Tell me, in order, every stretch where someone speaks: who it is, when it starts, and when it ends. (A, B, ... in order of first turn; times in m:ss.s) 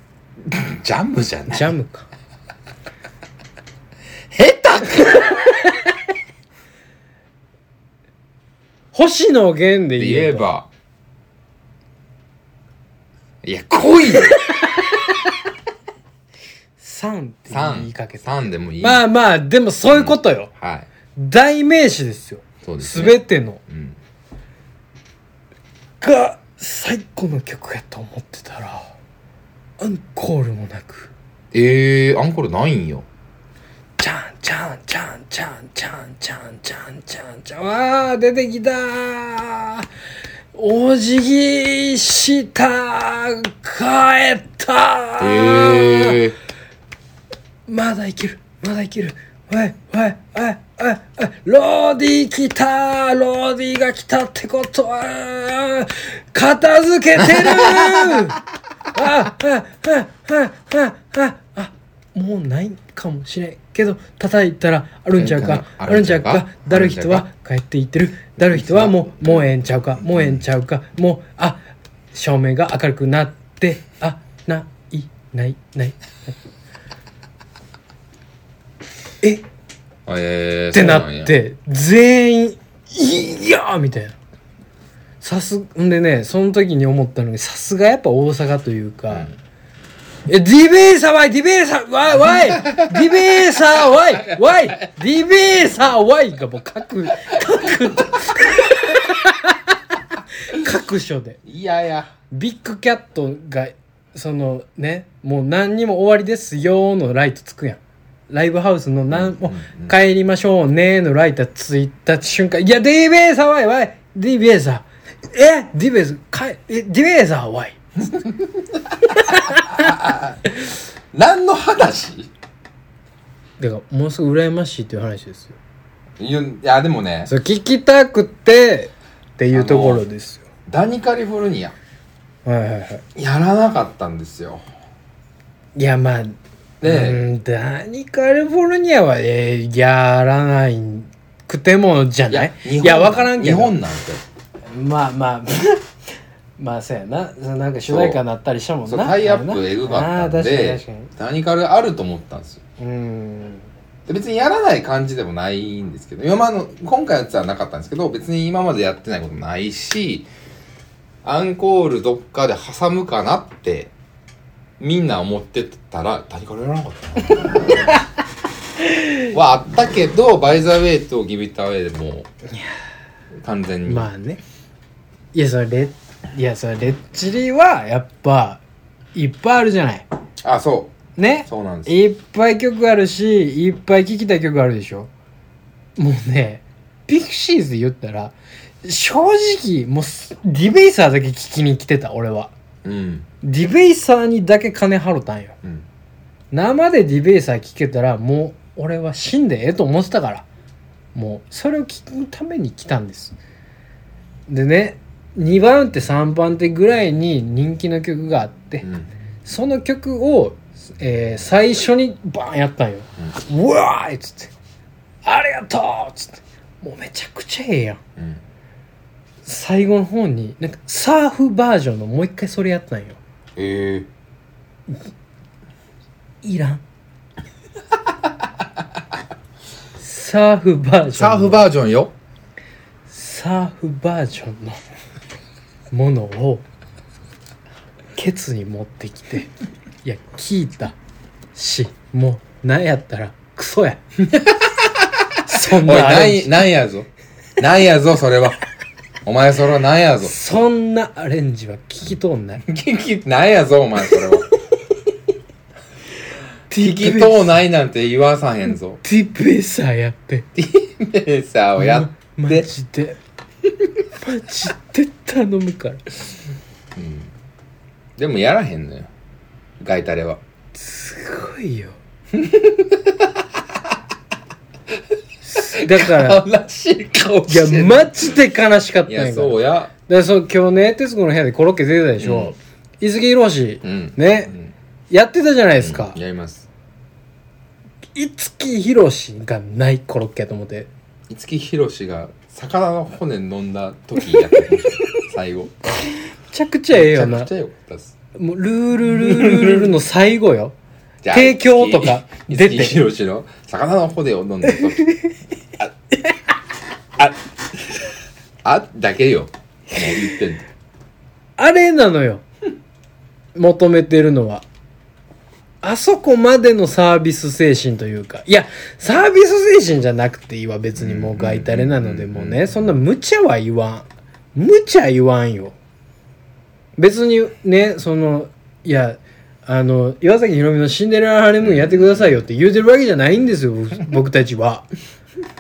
0:00.5-0:01.7 A
0:01.5-0:02.1 B
0:04.3-0:05.6 A
0:08.9-0:10.5 B
0:10.0-0:10.7 A
0:13.4-0:14.5 A
0:14.1-0:15.0 B
0:16.8-0:20.5 B
0:17.5-0:19.0 A
0:19.9-0:20.9 A
0:21.2-0:23.6 B
0:22.6-0:24.0 A
0:26.0-0:28.9 B
0:29.8-0:31.1 B
0:31.5-0:33.1 A
0:34.0-0:39.9 B
0:40.5-0:46.2 B
0:45.2-0:46.4 A
0:47.7-0:58.4 B
0:57.3-0:58.2 A
0:58.9-1:11.6 B
1:05.2-1:07.2 A
1:08.5-1:09.5 A
1:10.0-1:10.4 A
1:12.1-1:16.4 B
1:20.1-1:21.4 A
1:20.7-1:24.2 B
1:25.2-1:29.3 B
1:29.1-1:29.4 A
1:30.3-1:41.4 B
1:32.2-1:34.9 A
1:41.4-1:42.1 A
1:42.3-1:57.8 B
1:49.1-1:50.0 A
1:58.0-2:00.6 A
1:59.2-1:59.9 B
2:01.1-2:02.3 A
2:03.6-2:05.6 B
2:06.2-2:07.3 A
2:07.3-2:10.4 B
2:09.5-2:10.0 A
2:10.7-2:11.8 A
2:12.4-2:13.0 B
2:13.2-2:14.6 A
2:15.8-2:23.8 B
2:16.8-2:17.3 A
2:22.3-2:24.2 A
2:24.7-2:31.1 B
2:27.9-2:28.2 A
2:28.9-2:32.6 A
2:32.8-2:33.7 B
2:34.1-2:40.3 A
2:41.2-2:43.9 A
2:44.8-2:47.8 A
2:48.8-2:49.3 B
2:49.3-2:52.3 A
2:53.4-2:54.1 A
2:53.8-2:54.4 B
2:55.3-2:58.6 B
2:59.1-3:00.1 B
3:00.4-3:02.0 A
3:01.2-3:05.1 B
3:06.0-3:12.5 B
3:12.8-3:13.3 A
3:13.4-3:15.6 B
3:16.5-3:20.5 B
3:21.1-3:23.4 B
3:24.5-3:28.8 B
3:28.8-3:29.1 A
3:29.4-3:34.5 B
3:35.2-3:38.0 B
3:38.2-3:38.4 A
3:39.4-3:43.2 B
3:43.6-3:44.1 A
3:46.4-3:46.8 B
3:50.0-3:51.6 B
3:51.1-3:52.1 A
3:53.1-3:54.8 B
3:55.9-3:56.6 B
3:58.2-3:59.5 B
4:00.0-4:01.0 B
4:01.5-4:04.0 B
4:04.3-4:08.6 A
4:05.5-4:06.7 B
4:09.3-4:10.4 A
4:10.2-4:12.6 B
4:12.6-4:14.5 A
4:16.7-4:17.6 B
4:16.7-4:19.0 A
4:19.0-4:20.5 B
4:20.6-4:22.7 A
4:21.8-4:23.2 B
4:24.2-4:26.2 B
4:27.0-4:27.3 A
4:28.2-4:29.1 A
4:29.8-4:30.4 A
4:30.7-4:32.0 B
4:32.3-4:33.4 A
4:35.5-4:36.4 B
4:35.6-4:38.4 A
4:37.5-4:44.5 B
4:39.1-4:39.9 A
4:42.2-4:42.6 A
4:43.8-4:44.7 A
4:45.1-4:46.2 B
4:45.8-4:46.7 A
4:48.2-4:50.9 B
4:51.3-4:55.9 A
4:56.5-4:57.5 B
4:56.9-4:58.2 A
4:58.4-5:00.8 B
4:59.1-4:59.9 A
5:01.2-5:05.2 A
5:01.3-5:03.0 B
5:04.7-5:05.3 B
5:08.6-5:10.7 A
5:11.6-5:12.4 B
5:13.6-5:14.6 B
5:15.8-5:25.8 B
5:21.0-5:22.7 A
5:27.0-5:34.9 B
5:31.6-5:32.4 A